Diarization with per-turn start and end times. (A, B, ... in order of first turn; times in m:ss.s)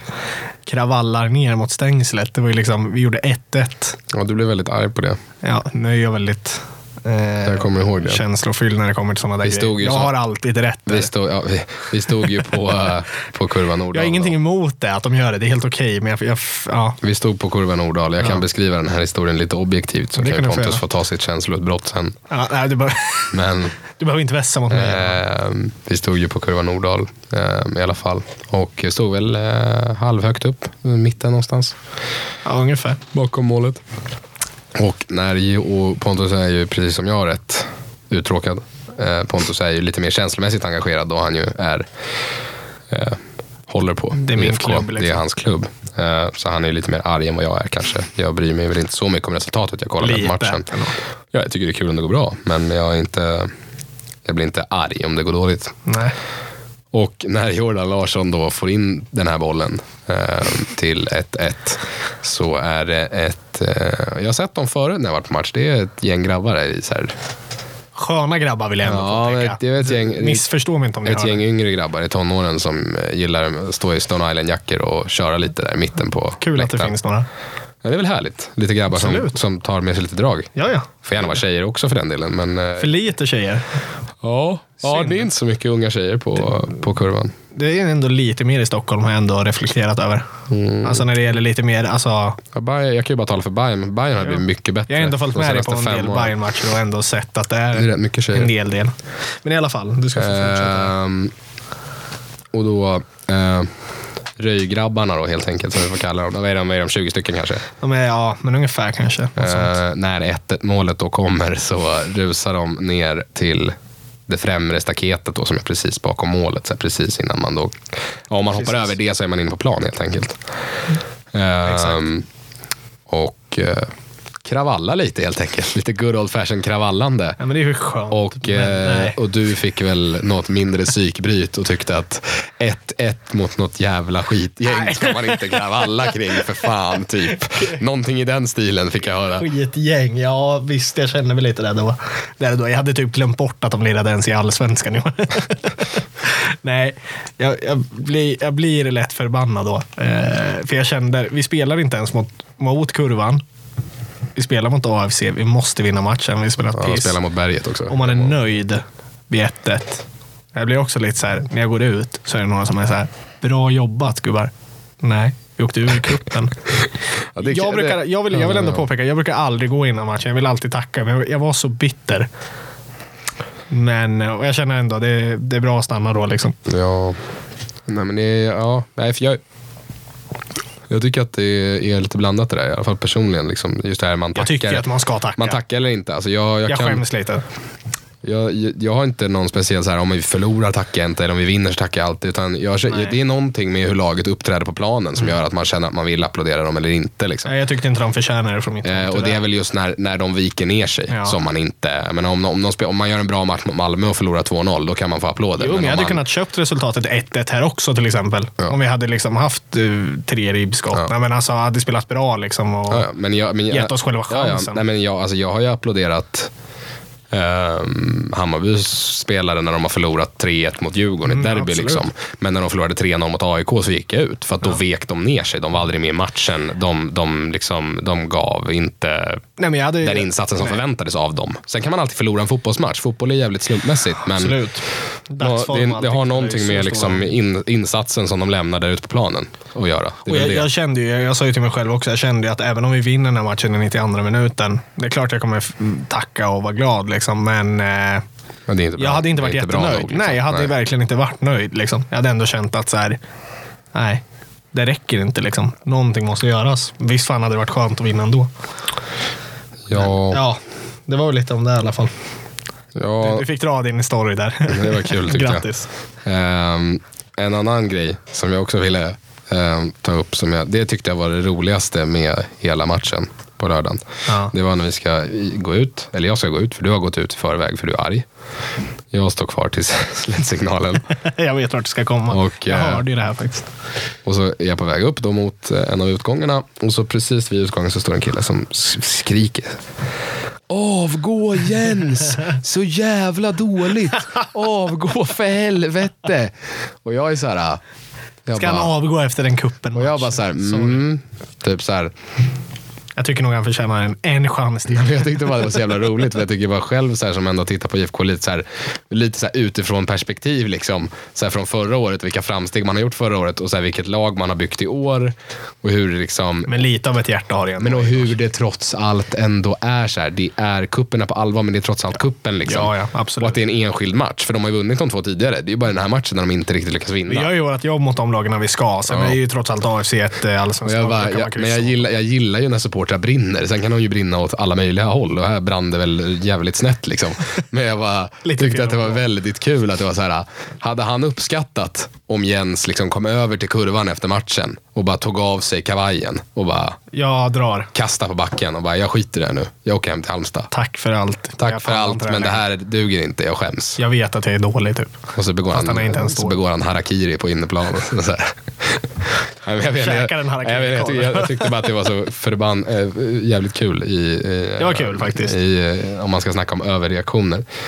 0:00.6-0:04.0 A
0:04.1-0:05.2 B
0:05.4-0:11.1 A
0:07.4-0:08.2 B
0:09.4-0:10.1 B
0:10.9-0:14.4 B
0:13.9-0:17.0 A
0:17.0-0:22.2 B
0:20.2-0:20.8 A
0:22.3-0:25.2 A
0:23.3-0:23.8 B
0:24.7-0:31.8 B
0:32.4-0:33.0 A
0:33.1-0:33.8 B
0:34.7-0:41.8 B
0:42.9-0:50.7 B
0:44.2-0:45.2 A
0:50.0-0:51.0 A
0:51.3-0:53.5 B
0:54.2-0:55.8 B
0:55.8-0:56.1 A
0:56.9-1:07.1 B
1:07.9-1:11.4 A
1:08.8-1:10.5 B
1:11.0-1:16.9 B
1:16.4-1:17.3 A
1:17.8-1:22.9 B
1:18.9-1:19.4 A
1:20.6-1:20.9 A
1:22.8-1:23.7 A
1:24.2-1:27.3 B
1:24.8-1:25.3 A
1:27.5-1:30.3 A
1:30.5-1:31.0 B
1:30.8-1:32.4 A
1:32.5-1:36.3 B
1:34.2-1:40.9 A
1:37.7-1:38.5 B
1:40.1-1:41.3 B
1:42.5-1:43.7 B
1:44.4-1:47.6 B
1:47.8-1:49.7 A
1:49.4-1:53.7 B
1:54.3-1:57.8 B
1:58.3-2:00.4 B
1:58.6-1:58.9 A
2:01.3-2:02.2 B
2:01.6-2:02.0 A
2:03.1-2:03.9 B
2:04.4-2:07.4 B
2:07.4-2:09.2 A
2:08.1-2:19.5 B
2:14.7-2:16.6 A
2:17.3-2:17.8 A
2:19.4-2:33.4 A
2:34.3-2:37.2 A
2:36.8-2:38.4 B
2:37.9-2:46.6 A
2:47.3-2:48.8 B
2:47.4-2:52.3 A
2:53.7-2:56.6 A
2:56.6-2:57.2 B
2:57.9-2:59.4 B
3:00.9-3:07.0 B
3:04.3-3:05.6 A
3:06.7-3:07.4 A
3:08.2-3:17.5 B
3:12.9-3:13.2 A
3:17.4-3:19.4 A
3:18.8-3:26.2 B
3:21.1-3:21.4 A
3:25.6-3:33.1 A
3:32.9-3:36.5 B
3:33.7-3:34.8 A
3:37.3-3:49.4 B
3:41.2-3:42.0 A
3:49.6-3:50.8 A
3:50.0-3:54.6 B
3:54.2-3:57.3 A
3:55.4-4:00.7 B
4:00.2-4:08.2 A
4:08.7-4:10.7 B
4:09.0-4:13.2 A
4:13.9-4:18.5 A
4:19.9-4:20.4 B
4:19.9-4:22.1 A
4:23.0-4:23.4 B
4:23.2-4:25.9 A
4:24.7-4:25.7 B
4:26.2-4:38.2 B
4:34.3-4:34.5 A
4:39.1-4:41.1 B
4:41.1-4:43.7 A
4:42.3-4:43.0 B
4:44.2-4:49.8 B
4:50.7-4:57.8 B
4:58.4-4:58.9 B
4:58.5-5:01.0 A
4:59.9-5:02.1 B
5:03.2-5:05.4 A
5:04.9-5:16.8 B
5:16.7-5:18.3 A
5:17.8-5:27.5 B
5:22.6-5:23.6 A
5:27.3-5:32.0 A
5:29.1-5:29.4 B
5:30.8-5:47.0 B
5:38.4-5:39.2 A
5:47.1-5:47.9 A
5:47.9-5:50.7 B
5:50.7-5:52.6 A
5:51.6-5:54.0 B
5:54.0-5:56.6 A
5:55.3-5:59.1 B
5:59.6-6:07.6 B
5:59.9-6:01.8 A
6:04.8-6:05.6 A